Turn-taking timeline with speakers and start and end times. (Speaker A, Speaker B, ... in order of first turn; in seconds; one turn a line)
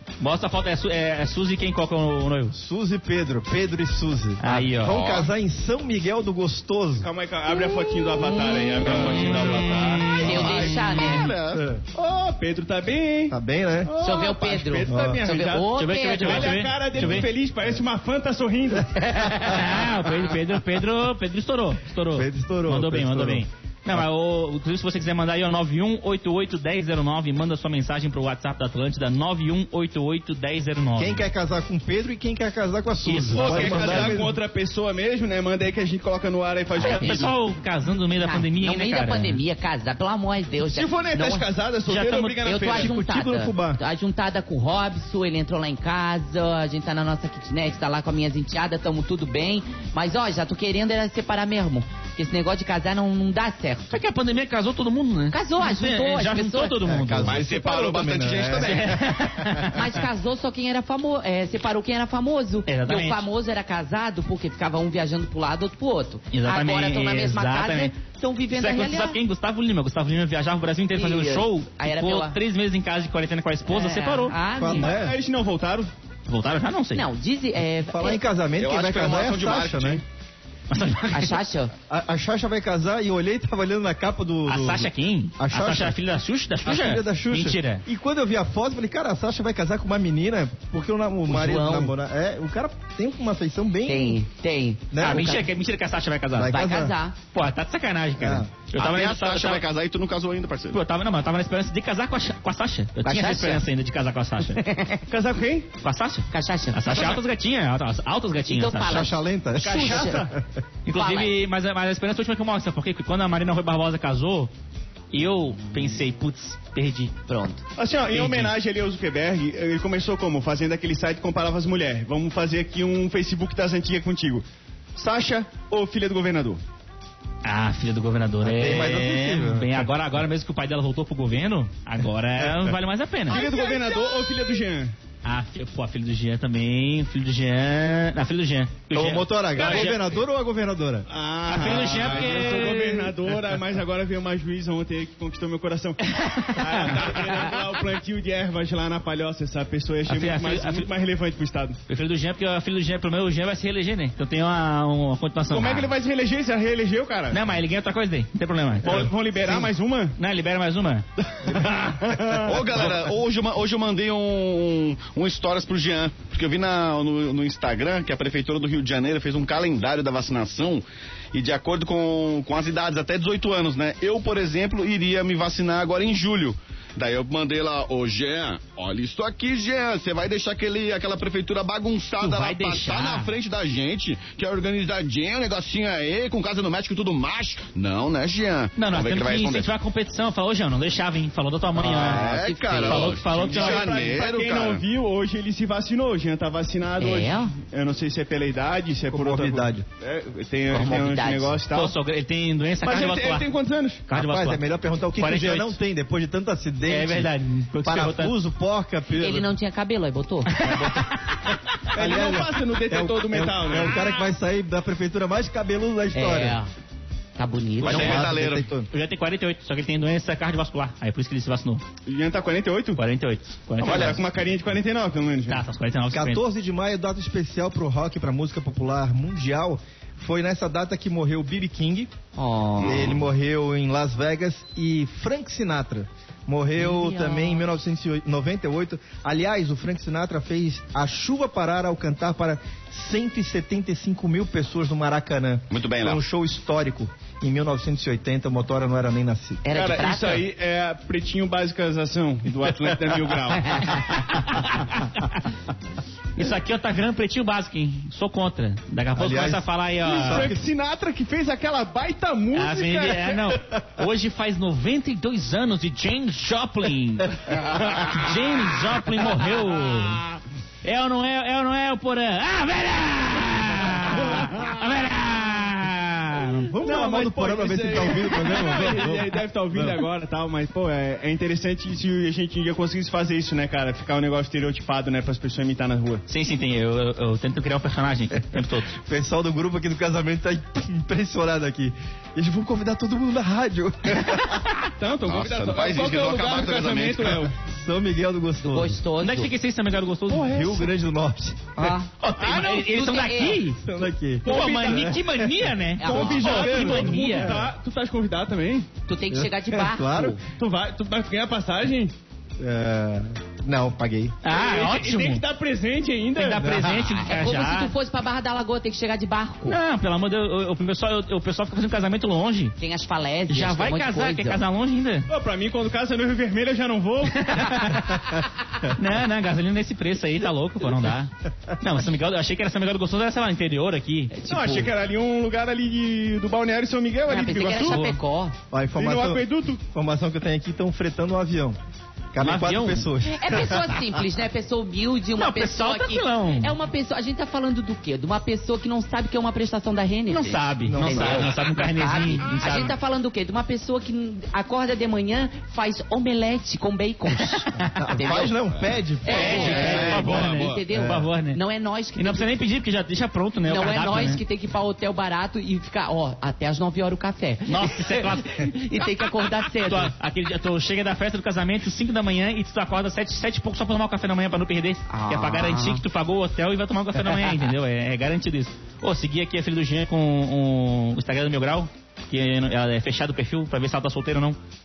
Speaker A: 0.2-2.6
Speaker B: 2.5-7.1
Speaker A: 4.4-5.0
Speaker C: 4.8-5.3
Speaker D: 7.0-10.9
Speaker A: 8.9-11.1
Speaker B: 8.9-9.4
Speaker E: 10.1-11.3
Speaker C: 10.2-11.7
Speaker B: 11.5-11.8
Speaker D: 11.9-19.0
Speaker B: 13.3-13.9
Speaker E: 14.0-16.7
Speaker B: 14.9-15.2
Speaker A: 15.7-17.3
Speaker B: 17.0-17.2
Speaker A: 19.2-31.2
Speaker B: 22.1-24.0
Speaker B: 31.0-34.4
Speaker A: 33.0-34.2
Speaker D: 33.3-37.3
Speaker A: 36.8-39.4
Speaker E: 36.8-37.3
Speaker E: 38.1-41.5
Speaker D: 40.6-42.9
Speaker A: 41.9-43.0
Speaker E: 42.4-54.0
Speaker B: 42.7-43.8
Speaker A: 53.9-57.4
Speaker E: 55.3-56.8
Speaker B: 56.9-59.7
Speaker C: 57.2-59.0
Speaker A: 58.6-60.0
Speaker E: 59.7-69.2
Speaker A: 62.7-63.2
Speaker A: 66.3-67.9
Speaker A: 68.5-74.4
Speaker E: 70.9-72.4
Speaker E: 73.7-74.9
Speaker B: 74.5-75.2
Speaker D: 74.7-75.9
Speaker A: 76.3-77.1
Speaker E: 76.9-78.2
Speaker B: 77.8-80.0
Speaker C: 78.6-80.0
Speaker A: 80.7-81.4
Speaker E: 81.1-81.7
Speaker B: 81.9-86.0
Speaker A: 84.5-87.8
Speaker B: 86.7-94.2
Speaker E: 91.3-91.9
Speaker E: 93.9-95.5
Speaker B: 94.9-95.4
Speaker A: 95.0-96.6
Speaker B: 96.3-97.0
Speaker E: 96.5-97.2
Speaker A: 97.3-99.6
Speaker B: 98.2-98.5
Speaker C: 98.8-100.8
Speaker A: 100.7-104.6
Speaker E: 103.0-103.7
Speaker E: 104.4-105.1
Speaker D: 105.1-105.7
Speaker A: 105.8-109.0
Speaker E: 106.3-107.2
Speaker E: 108.5-110.3
Speaker B: 108.8-110.4
Speaker D: 109.6-110.3
Speaker A: 110.9-114.5
Speaker E: 110.9-111.3
Speaker A: 115.1-117.1
Speaker E: 115.6-116.0
Speaker E: 117.3-117.7
Speaker D: 117.8-124.4
Speaker A: 118.1-118.5
Speaker D: 125.0-126.6
Speaker A: 127.4-133.5
Speaker B: 128.4-129.9
Speaker B: 132.4-132.7
Speaker D: 133.3-134.9
Speaker A: 135.2-140.0
Speaker B: 138.9-141.1
Speaker D: 139.6-139.9
Speaker D: 141.1-151.8
Speaker A: 141.5-143.4
Speaker A: 146.0-147.4
Speaker A: 150.1-150.9
Speaker A: 151.9-155.9
Speaker D: 155.5-157.4
Speaker A: 157.3-159.7
Speaker D: 158.8-160.2
Speaker A: 160.2-161.1
Speaker D: 161.3-162.9
Speaker B: 161.5-162.4
Speaker C: 162.4-189.7
Speaker A: 182.2-183.3
Speaker A: 188.8-192.3
Speaker C: 191.8-194.8
Speaker E: 191.8-193.2
Speaker A: 192.8-193.9
Speaker D: 193.3-201.9
Speaker E: 197.0-197.5
Speaker B: 199.1-199.9
Speaker E: 200.7-201.6
Speaker A: 201.7-203.5
Speaker D: 202.8-204.0
Speaker A: 204.1-204.6
Speaker B: 204.1-209.5
Speaker A: 205.2-205.8
Speaker A: 206.9-208.3
Speaker E: 209.2-210.6
Speaker A: 210.5-211.6
Speaker D: 211.9-214.0
Speaker B: 211.9-216.6
Speaker E: 216.1-216.7
Speaker E: 217.4-218.2
Speaker C: 217.8-218.7
Speaker B: 217.8-218.9
Speaker A: 218.9-221.8
Speaker D: 222.1-223.0
Speaker A: 223.0-224.2
Speaker D: 223.8-225.7
Speaker A: 225.5-226.4
Speaker B: 226.1-232.1
Speaker E: 232.4-233.1
Speaker C: 232.8-233.2
Speaker B: 232.8-249.6
Speaker E: 236.8-237.7
Speaker C: 245.7-246.2
Speaker E: 249.6-250.5
Speaker D: 249.7-254.4
Speaker A: 253.9-255.5
Speaker A: 256.4-260.5
Speaker B: 259.2-259.7
Speaker D: 260.0-263.6
Speaker B: 260.2-260.6
Speaker A: 262.5-270.2
Speaker A: 270.8-276.7
Speaker B: 276.7-280.0
Speaker D: 276.8-286.2
Speaker A: 286.3-288.9
Speaker B: 288.9-294.6
Speaker D: 295.0-297.5
Speaker C: 295.3-297.5
Speaker B: 297.6-299.0
Speaker E: 298.6-299.5
Speaker A: 299.2-300.9
Speaker B: 300.3-302.0
Speaker E: 301.8-303.8
Speaker A: 302.2-303.8
Speaker B: 303.8-307.6
Speaker A: 304.4-307.6
Speaker D: 304.4-305.2
Speaker E: 306.0-307.1
Speaker D: 306.0-308.9
Speaker E: 309.1-310.4
Speaker B: 309.3-310.4
Speaker D: 310.5-312.1
Speaker B: 312.6-314.4
Speaker A: 314.4-315.4
Speaker D: 314.4-316.7
Speaker A: 316.4-317.9
Speaker B: 316.6-317.2
Speaker E: 317.1-319.8
Speaker A: 319.7-322.7
Speaker E: 322.8-324.6
Speaker A: 323.5-325.3
Speaker D: 325.3-327.8
Speaker A: 327.3-334.9
Speaker E: 334.3-334.9
Speaker D: 334.5-338.1
Speaker E: 337.3-338.6
Speaker A: 337.9-338.1
Speaker B: 338.7-341.8
Speaker D: 338.9-339.8
Speaker B: 342.3-344.2
Speaker A: 342.4-343.1
Speaker E: 343.3-358.6
Speaker A: 345.4-346.8
Speaker A: 350.3-352.9
Speaker B: 350.9-351.5
Speaker A: 357.4-358.4
Speaker B: 357.9-360.4
Speaker E: 359.2-362.5
Speaker C: 359.3-360.8
Speaker A: 359.3-361.6
Speaker B: 360.9-361.3
Speaker A: 362.2-364.4
Speaker E: 363.6-370.1
Speaker A: 367.7-369.2
Speaker A: 369.8-384.6
Speaker E: 375.1-376.0